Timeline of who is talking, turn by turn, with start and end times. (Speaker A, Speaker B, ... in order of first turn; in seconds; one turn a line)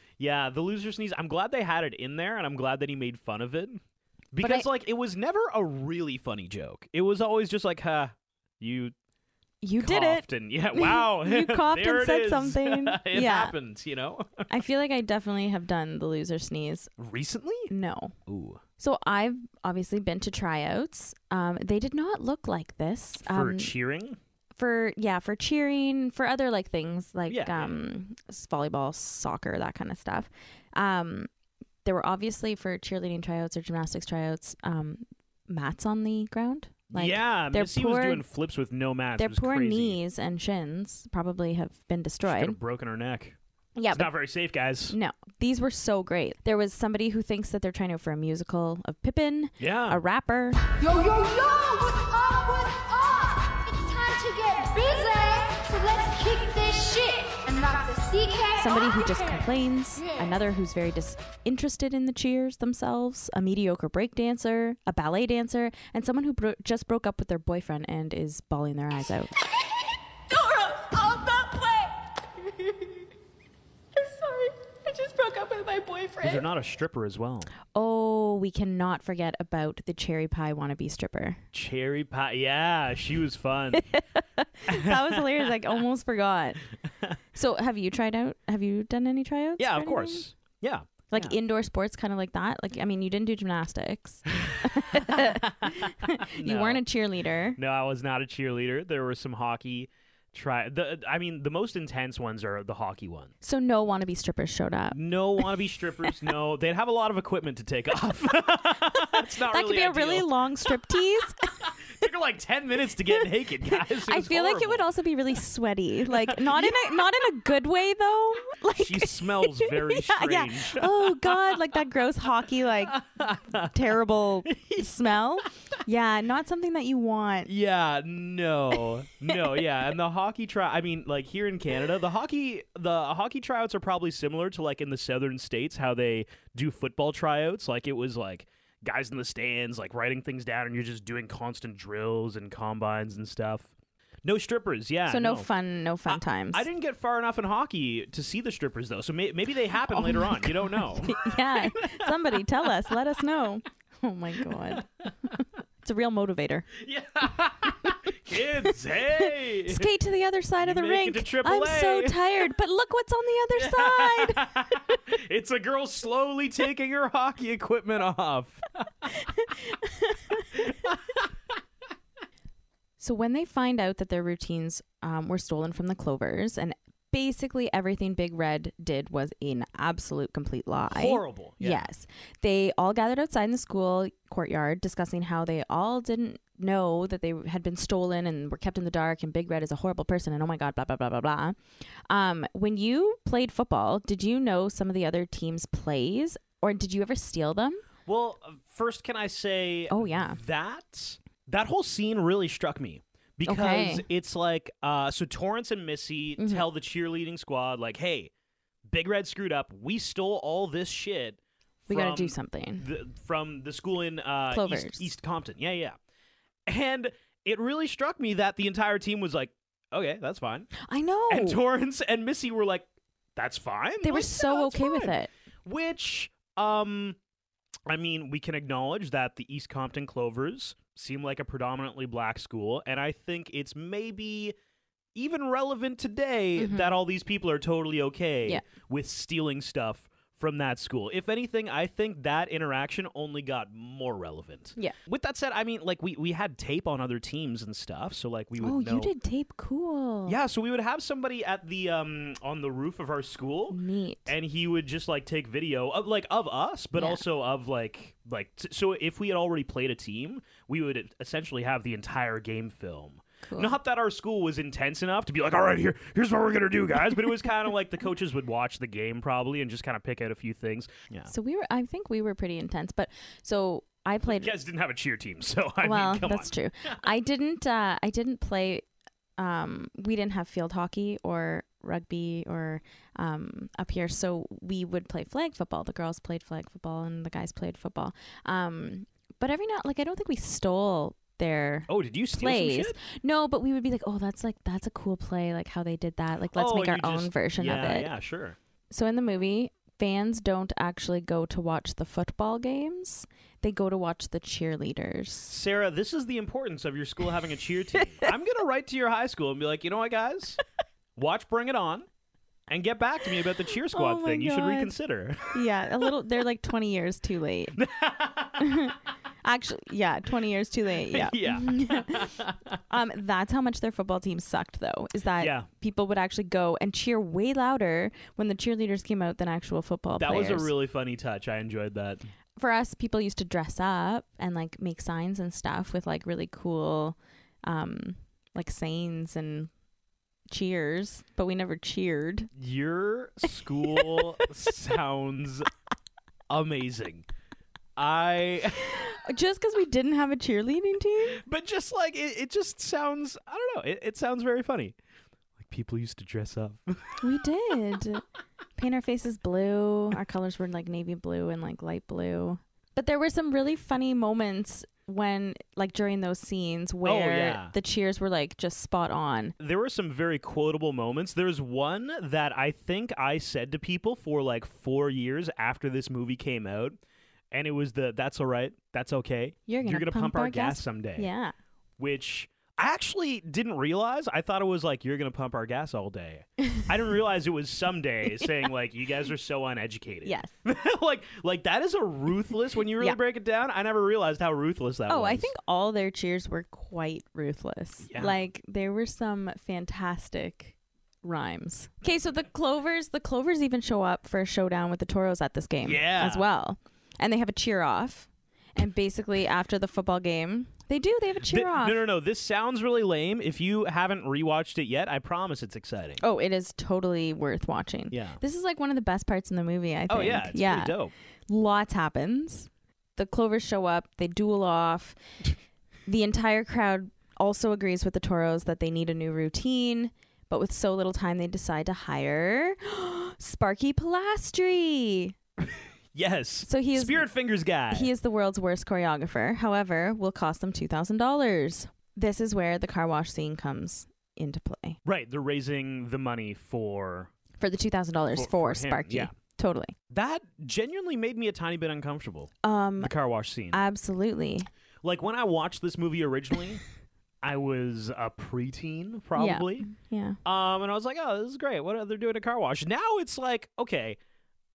Speaker A: 0.2-3.8
Speaker A: 4.3-8.9
Speaker B: 4.4-4.7
Speaker B: 9.6-13.6
Speaker A: 9.8-14.5
Speaker B: 14.5-16.9
Speaker A: 17.0-17.7
Speaker B: 17.7-18.1
Speaker A: 18.3-18.6
Speaker B: 18.8-23.7
Speaker A: 23.2-24.2
Speaker B: 24.6-31.3
Speaker A: 27.3-27.8
Speaker B: 31.9-38.2
Speaker A: 36.9-40.0
Speaker B: 39.2-42.6
Speaker A: 42.2-43.4
Speaker B: 43.8-44.1
Speaker A: 43.9-45.0
Speaker B: 44.9-50.8
Speaker A: 49.6-50.0
Speaker C: 50.8-59.3
Speaker B: 58.6-69.3
Speaker C: 70.7-71.8
Speaker B: 75.2-76.4
Speaker A: 76.2-77.5
Speaker B: 77.7-81.4
Speaker A: 81.5-83.9
Speaker B: 83.8-86.6
Speaker A: 84.7-85.5
Speaker B: 87.3-90.3
Speaker A: 89.6-91.3
Speaker B: 91.1-97.6
Speaker A: 94.4-96.8
Speaker A: 97.5-103.3
Speaker B: 103.4-105.5
Speaker A: 104.9-110.3
Speaker B: 108.9-111.7
Speaker A: 111.6-114.9
Speaker B: 113.1-127.5
Speaker A: 116.1-116.9
Speaker A: 118.8-121.7
Speaker A: 122.8-123.8
Speaker A: 124.5-124.9
Speaker A: 127.5-143.7
Speaker B: 128.8-129.7
Speaker A: 144.2-145.5
Speaker B: 145.1-146.7
Speaker A: 146.1-153.0
Speaker B: 149.9-156.7
Speaker A: 154.5-155.4
Speaker A: 156.8-159.9
Speaker B: 158.7-164.9
Speaker A: 160.6-162.3
Speaker A: 163.6-169.2
Speaker B: 169.2-170.6
Speaker A: 170.5-171.3
Speaker B: 173.0-191.6
Speaker A: 180.9-181.9
Speaker B: 192.1-197.8
Speaker A: 198.1-208.3
Speaker B: 199.9-200.4
Speaker B: 203.5-204.1
Speaker B: 206.4-206.7
Speaker A: 208.9-216.0
Speaker B: 211.9-212.9
Speaker B: 214.5-215.1
Speaker A: 216.7-220.7
Speaker B: 220.8-221.6
Speaker A: 221.3-227.2
Speaker B: 224.0-225.3
Speaker A: 227.9-234.6
Speaker A: 235.2-249.1
Speaker B: 236.6-237.0
Speaker B: 248.6-250.4
Speaker A: 250.3-271.3
Speaker B: 253.7-254.3
Speaker B: 257.0-257.2
Speaker B: 263.4-263.8
Speaker B: 271.3-274.5
Speaker A: 274.3-277.0
Speaker B: 275.8-278.9
Speaker B: 279.4-298.1
Speaker A: 291.9-293.0
Speaker A: 296.5-298.6
Speaker B: 298.9-305.5
Speaker A: 305.5-310.6
Speaker A: 311.2-312.1
Speaker A: 312.7-315.6
Speaker B: 313.8-314.9
Speaker B: 315.5-317.8
Speaker A: 317.8-318.9
Speaker B: 318.6-322.4
Speaker A: 321.1-322.8
Speaker B: 322.9-330.7
Speaker A: 325.4-325.7
Speaker A: 330.2-332.2
Speaker B: 332.6-339.7
Speaker B: 340.5-342.5
Speaker A: 342.6-345.7
Speaker B: 343.8-344.3
Speaker A: 346.5-347.3
Speaker A: 348.0-349.1
Speaker B: 348.9-351.4
Speaker A: 351.3-355.0
Speaker A: 355.6-357.3
Speaker B: 357.2-358.2
Speaker B: 358.8-369.6
Speaker A: 367.0-367.7
Speaker A: 369.6-377.0
Speaker A: 377.5-381.3
Speaker B: 379.7-381.5
Speaker A: 382.0-395.5
Speaker B: 390.2-390.5
Speaker B: 395.1-412.0
Speaker A: 398.1-398.4
Speaker A: 405.8-406.5
Speaker A: 411.4-416.2
Speaker B: 416.2-420.9
Speaker A: 418.1-418.4
Speaker A: 420.1-421.1
Speaker B: 421.5-425.2
Speaker B: 426.1-435.4
Speaker A: 436.1-438.1
Speaker B: 436.7-437.3
Speaker B: 437.9-445.0
Speaker A: 445.1-447.3
Speaker B: 447.6-449.9
Speaker A: 448.3-449.3
Speaker A: 450.1-453.8
Speaker B: 452.6-453.1
Speaker B: 453.7-454.7
Speaker A: 455.0-456.8
Speaker A: 457.4-459.9
Speaker B: 459.4-460.4
Speaker A: 460.4-464.2